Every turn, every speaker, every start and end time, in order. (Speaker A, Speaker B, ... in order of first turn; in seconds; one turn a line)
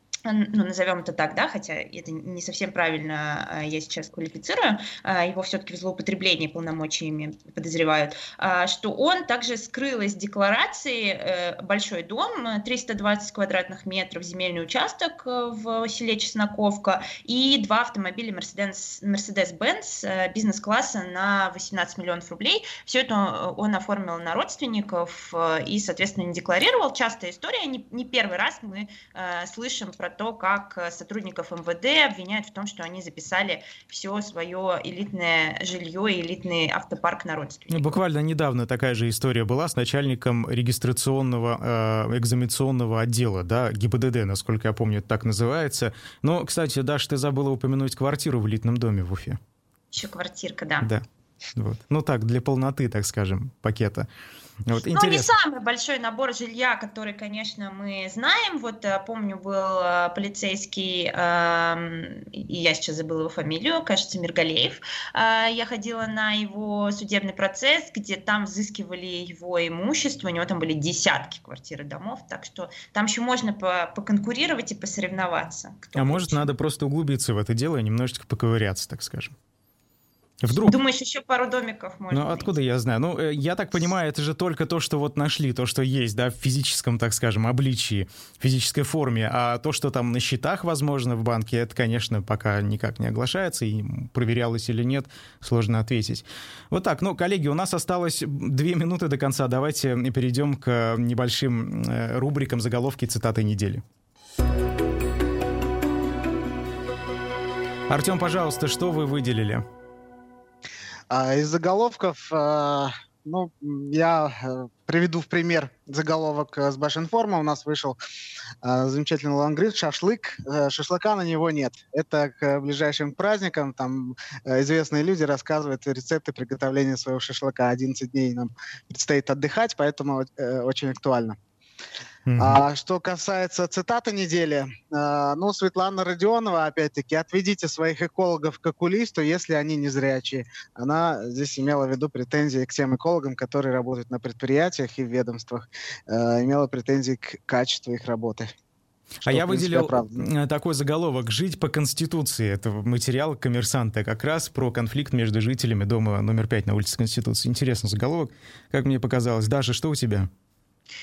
Speaker A: 0.2-37.9
Speaker B: 37.7-49.4
Speaker A: 49.9-50.9
Speaker B: 51.5-54.1
Speaker B: 54.6-55.3
Speaker A: 54.8-76.5
Speaker B: 75.9-79.3
Speaker B: 80.4-80.8
Speaker A: 80.5-82.5
Speaker B: 82.1-103.8
Speaker B: 107.9-109.6
Speaker C: 111.1-118.0
Speaker C: 118.6-131.3
Speaker B: 132.3-132.6
Speaker C: 132.4-148.5
Speaker C: 149.2-150.2
Speaker B: 149.2-160.3